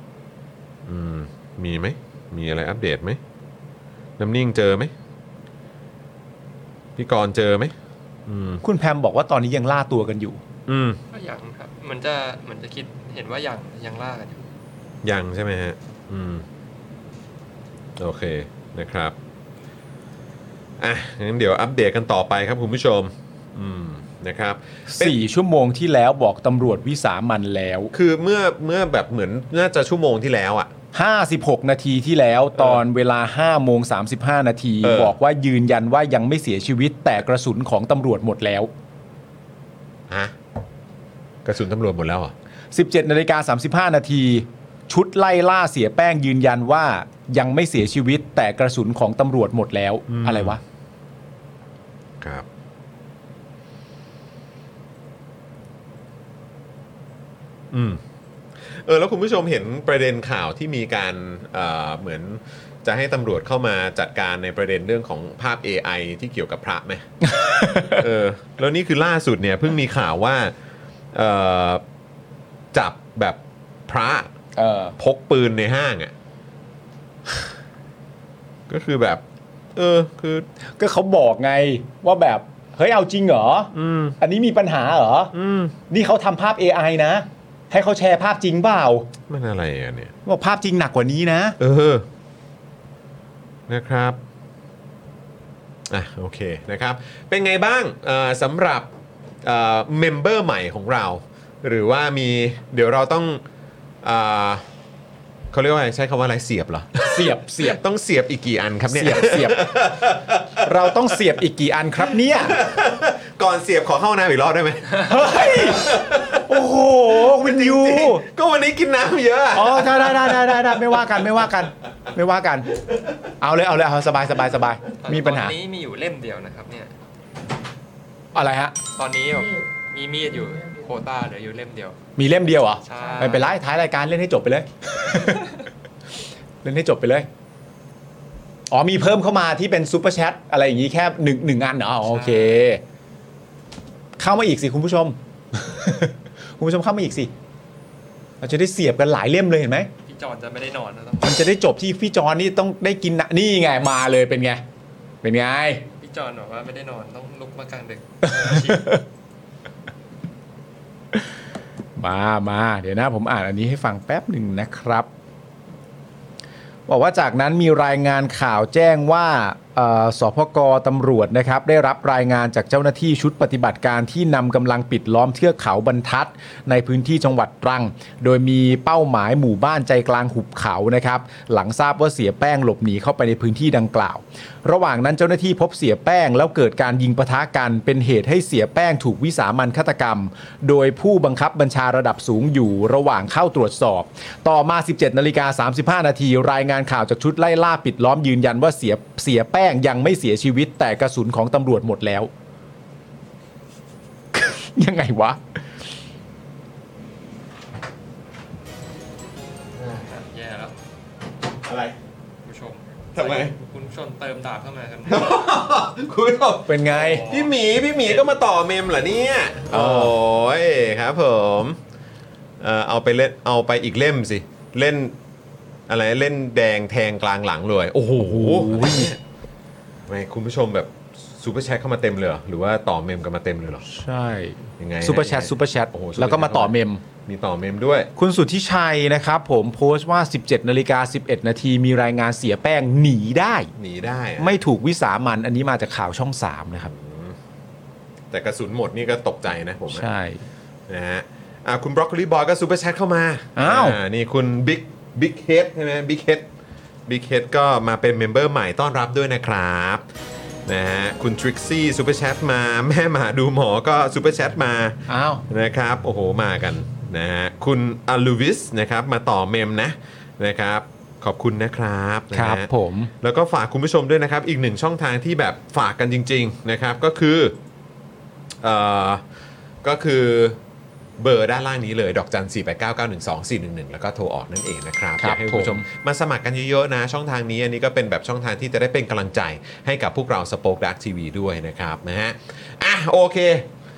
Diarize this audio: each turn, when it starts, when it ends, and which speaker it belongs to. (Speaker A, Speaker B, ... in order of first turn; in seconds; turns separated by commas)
Speaker A: 0.8-3.2, Speaker A: 4.2-4.9, Speaker A: 7.0-7.7, Speaker A: 8.3-8.6, Speaker B: 8.6-10.4, Speaker A: 10.7-11.0, Speaker C: 11.1-14.4, Speaker A: 15.0-16.4, Speaker A: 18.0-19.1, Speaker A: 20.8-25.2, Speaker B: 24.9-27.9, Speaker A: 27.9-30.7, Speaker B: 30.9-38.7, Speaker A: 34.8-35.1, Speaker A: 40.1-40.3, Speaker A: 41.4-42.3, Speaker B: 42.7-50.6, Speaker A: 50.1-50.6, Speaker A: 52.2-52.5, Speaker A: 57.7-58.0, Speaker A: 58.6-67.1, Speaker B: 67.2-68.0, Speaker A: 67.7-70.5, Speaker A: 71.1-71.8, Speaker A: 72.7-74.3, Speaker B: 74.6-75.0, Speaker A: 75.0-76.1, Speaker A: 78.7-79.2, Speaker A: 79.8-80.5, Speaker B: 80.8-85.3, Speaker A: 83.7-84.2, Speaker A: 85.3-85.7, Speaker B: 85.9-89.1, Speaker A: 89.3-90.1, Speaker B: 90.2-91.6, Speaker A: 91.6-92.0, Speaker A: 93.7-94.2, Speaker A: 95.9-98.9, Speaker A: 99.4-103.4, Speaker A: 104.0-104.6, Speaker A: 105.5-110.7, Speaker B: 107.0-107.8, Speaker B: 108.9-109.6, Speaker B: 110.6-112.6, Speaker A: 112.4-116.4, Speaker B: 115.0-115.9, Speaker B: 116.5-118.2, Speaker A: 117.2-121.1, Speaker B: 119.5-122.7, Speaker B: 123.4-125.5, Speaker C: 125.0-126.9, Speaker B: 128.3-128.8, Speaker C: 129.0-132.0, Speaker B: 132.2-135.5, Speaker C: 132.8-133.5, Speaker B: 136.6-137.3, Speaker B: 138.7-142.8, Speaker C: 142.1-142.6, Speaker B: 144.2-147.3, Speaker B: 148.4-149.9, Speaker C: 150.1-151.4, Speaker B: 151.2-154.6, Speaker B: 155.2-155.8, Speaker C: 156.0-158.9, Speaker B: 158.4-159.0, Speaker B: 162.0-165.1, Speaker B: 166.9-202.3, Speaker B: 204.3-205.4, Speaker A: 209.8-210.1, Speaker C: 210.1-210.8, Speaker A: 211.6-212.0, Speaker C: 212.4-215.4, Speaker A: 213.2-213.6, Speaker A: 215.1-221.8, Speaker B: 216.7-217.2, Speaker C: 216.9-217.5, Speaker B: 219.7-220.1, Speaker A: 222.6-225.2, Speaker A: 225.9-229.2, Speaker B: 228.2-229.1, Speaker A: 230.1-233.8, Speaker B: 233.9-237.0, Speaker A: 234.8-238.1, Speaker B: 238.2-243.7, Speaker A: 243.8-244.6, Speaker B: 244.4-246.9, Speaker A: 246.8-247.4, Speaker A: 248.3-250.1, Speaker B: 249.9-250.4, Speaker A: 250.9-256.5, Speaker B: 253.6-254.0, Speaker A: 257.1-260.1, Speaker A: 260.7-272.7, Speaker B: 265.1-265.4, Speaker B: 272.3-273.1, Speaker A: 273.2-277.6, Speaker A: 278.6-279.2, Speaker A: 279.8-280.6, Speaker A: 281.2-293.7, Speaker B: 285.2-285.9